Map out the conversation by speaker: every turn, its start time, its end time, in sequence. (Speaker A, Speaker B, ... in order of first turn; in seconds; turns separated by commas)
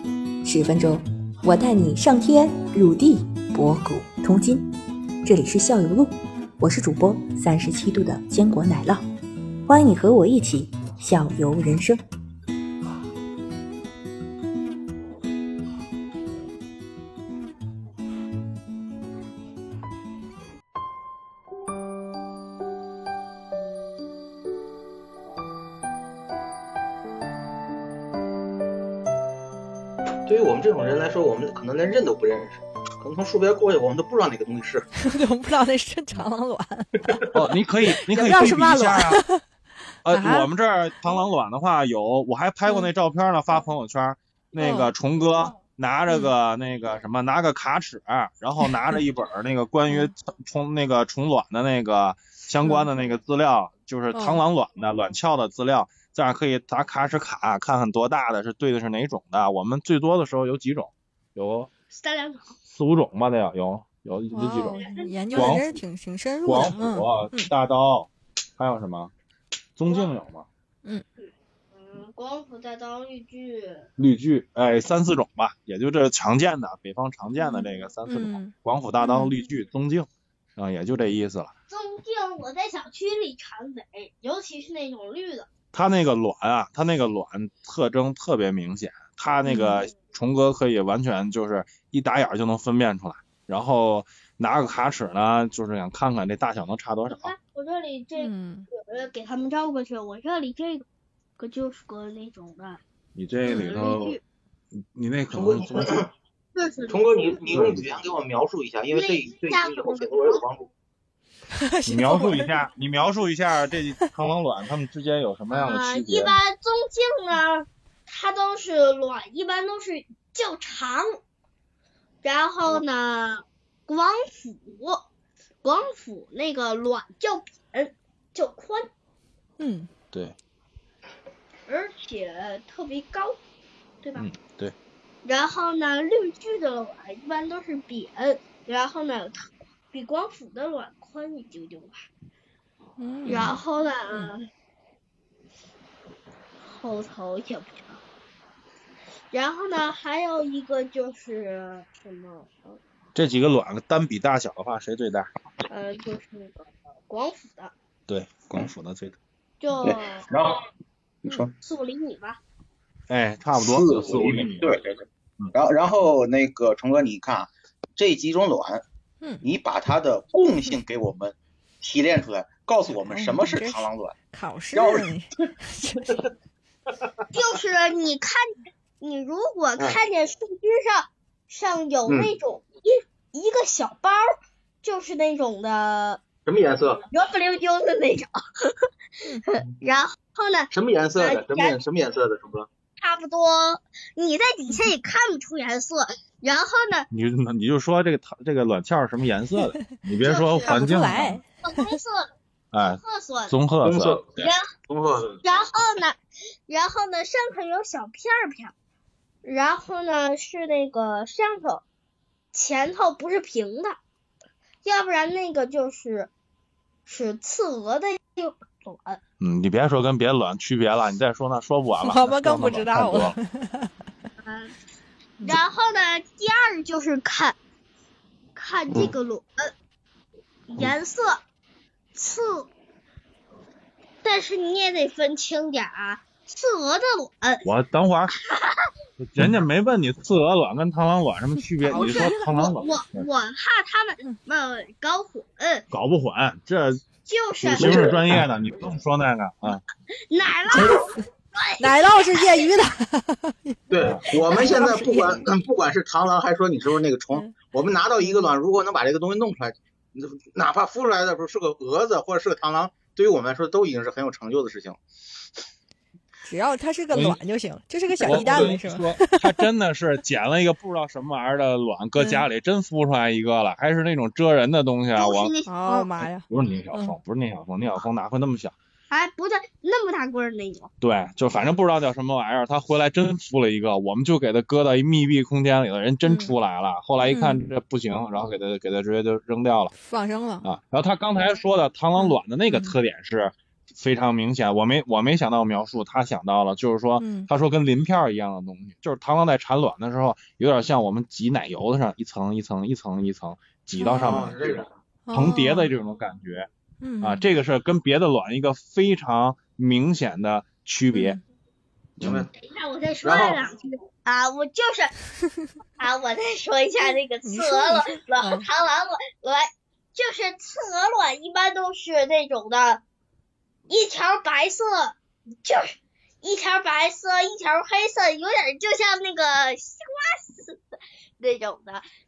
Speaker A: 0.4-4.7, Speaker A: 5.2-9.1, Speaker A: 9.7-12.0, Speaker B: 30.3-34.9, Speaker C: 35.0-37.2, Speaker D: 37.3-39.2, Speaker C: 37.8-39.4, Speaker D: 40.0-61.7, Speaker C: 40.1-40.5, Speaker C: 44.6-44.9, Speaker C: 52.6-52.9, Speaker C: 54.1-54.4, Speaker E: 61.9-62.6, Speaker D: 62.7-64.8, Speaker C: 64.3-67.5, Speaker E: 64.7-65.6, Speaker D: 65.3-65.8, Speaker D: 66.5-69.1, Speaker D: 69.8-70.5, Speaker E: 71.2-73.9, Speaker D: 74.0-81.5, Speaker C: 77.5-79.3, Speaker E: 81.7-85.5, Speaker D: 85.7-97.3, Speaker C: 89.5-89.8, Speaker E: 97.1-100.9, Speaker C: 98.2-98.7, Speaker E: 101.4-102.8, Speaker D: 103.2-104.2, Speaker E: 103.4-104.2, Speaker D: 104.9-105.9, Speaker B: 105.3-106.1, Speaker E: 106.5-107.4, Speaker B: 106.9-110.7, Speaker D: 107.5-108.0, Speaker E: 108.9-110.4, Speaker C: 111.6-112.6, Speaker D: 111.9-116.4, Speaker E: 115.5-121.2, Speaker E: 122.2-125.1, Speaker E: 125.6-128.9, Speaker C: 129.6-129.9, Speaker E: 131.7-133.4, Speaker E: 134.0-134.3, Speaker D: 134.2-134.7, Speaker E: 135.2-142.0, Speaker C: 143.0-143.5, Speaker E: 143.3-144.4, Speaker D: 143.3-143.6, Speaker E: 146.7-148.0, Speaker E: 149.3-152.8, Speaker D: 153.2-155.3, Speaker E: 155.7-157.7, Speaker D: 158.1-159.2, Speaker E: 159.6-160.3, Speaker B: 159.8-160.7, Speaker B: 161.2-161.5, Speaker E: 161.3-162.4, Speaker D: 163.1-164.8, Speaker B: 163.6-168.8, Speaker B: 169.4-174.2, Speaker C: 173.1-176.2, Speaker B: 174.7-175.1, Speaker E: 177.3-178.5, Speaker E: 179.0-186.2, Speaker B: 182.1-182.3, Speaker B: 186.5-187.1, Speaker E: 187.1-188.8, Speaker E: 189.5-191.8, Speaker B: 190.7-192.7, Speaker E: 193.0-197.1, Speaker D: 197.1-201.4, Speaker E: 200.2-200.9, Speaker C: 200.7-201.9, Speaker E: 201.6-203.6, Speaker D: 202.7-204.2, Speaker B: 203.8-205.4, Speaker E: 204.4-204.7, Speaker E: 205.4-208.7, Speaker E: 209.4-211.8, Speaker E: 212.5-214.0, Speaker E: 214.8-216.3, Speaker E: 217.1-219.2, Speaker D: 219.4-223.4, Speaker C: 222.0-223.9, Speaker E: 224.4-224.7, Speaker E: 225.4-227.6, Speaker E: 228.6-229.7, Speaker E: 230.7-231.4, Speaker E: 232.2-232.7, Speaker E: 234.2-237.7, Speaker D: 237.6-238.3, Speaker E: 238.4-238.8, Speaker D: 239.2-243.3, Speaker C: 241.8-242.5, Speaker E: 241.9-245.9, Speaker D: 245.9-247.0, Speaker E: 247.3-248.0, Speaker B: 247.6-248.4, Speaker D: 247.6-249.8, Speaker E: 250.3-252.8, Speaker B: 250.7-251.1, Speaker C: 251.8-253.8, Speaker B: 253.9-265.0, Speaker C: 254.4-255.4, Speaker E: 254.4-255.2, Speaker C: 266.4-269.4, Speaker D: 267.1-267.4, Speaker B: 268.2-268.8, Speaker D: 268.2-275.6, Speaker C: 272.2-272.5, Speaker E: 275.1-276.1, Speaker C: 275.7-277.2, Speaker D: 276.5-278.7, Speaker E: 279.1-280.9, Speaker D: 281.0-289.9, Speaker C: 286.2-286.5, Speaker C: 287.2-287.6, Speaker C: 289.9-290.7, Speaker D: 290.6-306.7, Speaker C: 292.2-293.0, Speaker C: 297.2-297.5, Speaker C: 304.0-304.5, Speaker B: 304.1-304.9, Speaker C: 305.3-305.9, Speaker C: 307.0-307.6, Speaker D: 307.2-311.4, Speaker C: 311.1-311.4, Speaker B: 312.2-312.5, Speaker D: 312.2-312.4, Speaker E: 312.5-315.1, Speaker B: 313.2-313.6, Speaker E: 316.0-323.0, Speaker C: 317.4-318.7, Speaker E: 323.9-330.8, Speaker E: 331.4-332.1